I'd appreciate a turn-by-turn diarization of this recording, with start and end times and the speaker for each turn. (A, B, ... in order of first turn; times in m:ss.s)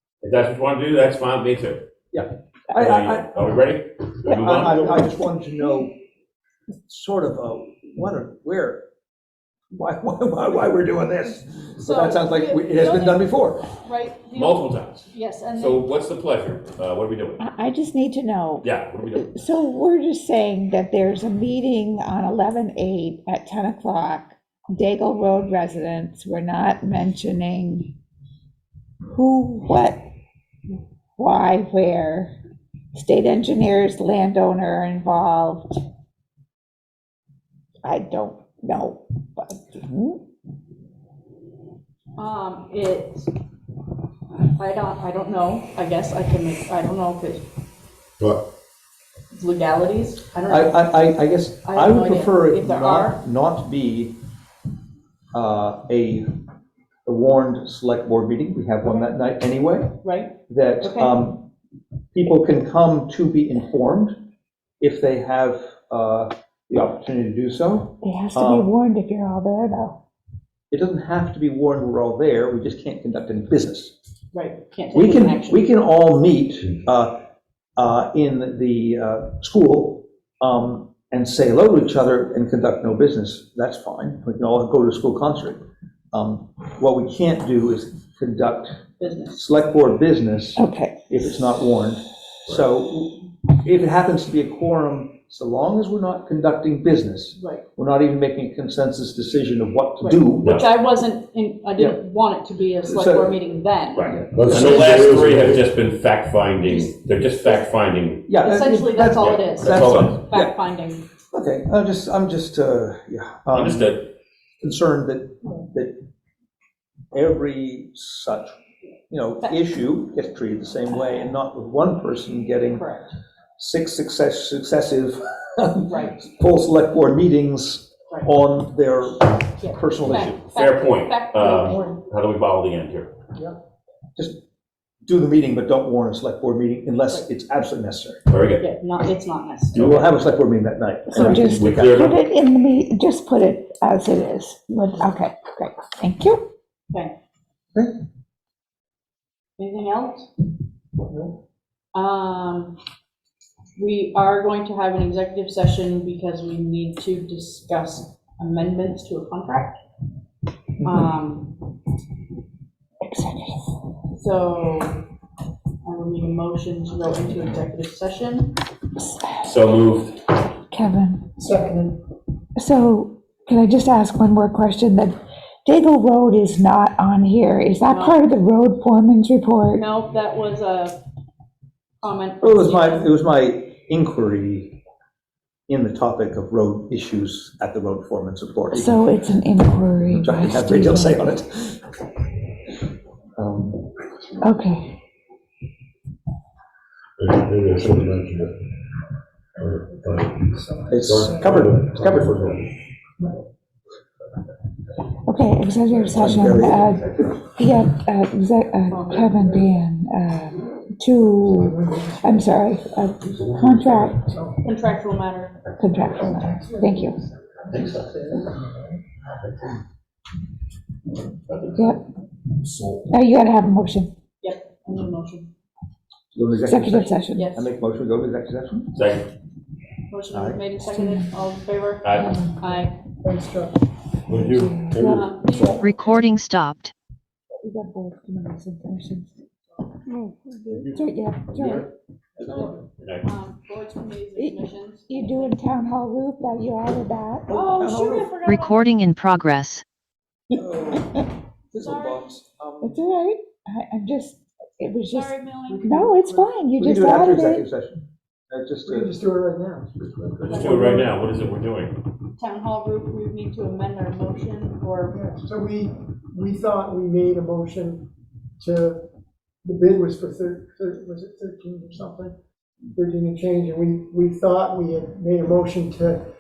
0:00.2-0:01.9 A
0:02.1-0:03.3 B
0:02.7-0:05.0 A
0:02.8-0:03.0 C
0:04.2-0:05.8 C
0:04.2-0:05.9 B
0:06.8-0:08.8 B
0:09.7-0:13.7 B
0:11.8-0:15.9 D
0:14.3-0:17.4 A
0:17.4-0:27.9 C
0:18.6-0:19.3 A
0:29.1-0:30.0 C
0:31.2-0:32.4 C
0:32.9-0:35.8 C
0:37.8-0:40.2 C
0:42.2-0:43.3 D
0:44.5-0:47.4 D
0:49.3-0:51.0 D
0:50.5-0:54.2 B
0:51.6-0:53.2 D
0:55.3-0:56.3 B
0:57.0-1:01.5 B
1:00.0-1:01.2 D
1:02.1-1:04.2 B
1:04.8-1:08.7 B
1:08.0-1:10.0 C
1:10.7-1:13.9 B
1:14.3-1:15.7 D
1:14.9-1:17.2 B
1:17.8-1:40.6 B
1:29.0-1:29.4 D
1:30.6-1:31.0 C
1:37.4-1:37.7 D
1:40.0-1:44.7 D
1:42.9-1:43.4 B
1:44.0-1:48.3 A
1:44.1-1:44.4 B
1:44.3-1:45.7 E
1:46.6-1:46.9 D
1:48.3-1:50.6 B
1:48.4-1:51.1 D
1:49.2-1:50.2 A
1:51.3-1:53.9 B
1:53.5-1:54.1 A
1:54.6-1:56.0 B
1:57.1-1:58.6 B
1:59.1-2:02.9 B
2:02.7-2:03.1 D
2:03.6-2:10.4 B
2:05.8-2:06.3 D
2:08.1-2:08.3 D
2:09.6-2:12.0 D
2:10.1-2:13.1 A
2:11.6-2:11.9 F
2:15.0-2:18.3 B
2:18.3-2:18.6 A
2:18.6-2:19.9 D
2:19.7-2:20.1 A
2:19.8-2:21.9 B
2:21.1-2:26.4 C
2:21.1-2:22.2 A
2:29.6-2:30.3 D
2:31.1-2:31.4 F
2:31.9-2:32.8 D
2:33.8-2:39.8 D
2:40.8-2:41.6 D
2:43.0-2:43.8 C
2:44.1-2:45.0 D
2:45.8-2:48.5 D
2:49.0-2:49.5 C
2:49.4-2:50.2 A
2:50.7-2:51.3 C
2:51.4-2:52.0 F
2:52.6-2:59.8 C
2:57.9-2:58.3 D
2:59.7-3:01.0 D
3:02.0-3:03.2 D
3:02.4-3:04.8 B
3:05.7-3:09.1 B
3:08.7-3:11.3 C
3:10.1-3:11.8 B
3:13.4-3:13.9 B
3:14.4-3:15.0 C
3:17.2-3:18.6 E
3:19.6-3:20.4 E
3:20.3-3:21.6 F
3:20.9-3:22.6 B
3:21.0-3:22.6 E
3:25.3-3:34.2 C
3:26.2-3:27.0 B
3:28.9-3:29.4 D
3:31.5-3:32.6 F
3:34.2-3:34.6 F
3:34.6-3:35.6 D
3:35.8-3:37.2 C
3:36.5-3:38.9 F
3:37.7-3:38.2 A
3:41.7-3:42.0 C
3:43.1-3:44.1 C
3:44.4-3:45.5 D
3:46.3-3:49.0 B
3:46.6-3:47.5 C
3:47.4-3:47.8 D
3:48.9-3:49.3 A
3:50.1-3:53.0 D
3:50.3-3:50.6 B
3:50.8-3:51.3 C
3:52.0-3:52.3 A
3:52.1-3:52.8 C
3:53.2-3:53.7 F
3:54.3-3:55.3 E
3:54.3-3:55.8 C
3:55.1-3:56.3 D
3:55.8-3:56.9 G
3:57.6-3:59.3 C
4:00.9-4:01.9 C
4:02.4-4:05.6 D
4:03.0-4:03.3 A
4:04.4-4:07.5 C
4:07.5-4:08.3 B
4:07.5-4:09.0 D
4:08.4-4:09.8 G
4:10.6-4:13.0 B
4:11.8-4:12.3 D
4:12.8-4:17.7 C
4:15.1-4:15.9 D
4:15.7-4:16.6 F
4:16.8-4:19.1 B
4:18.8-4:21.2 F
4:20.4-4:22.0 A
4:20.5-4:20.9 D
4:22.4-4:25.2 D
4:25.1-4:28.1 F
4:28.6-4:29.0 F
4:29.6-4:32.4 F
4:33.0-4:36.2 F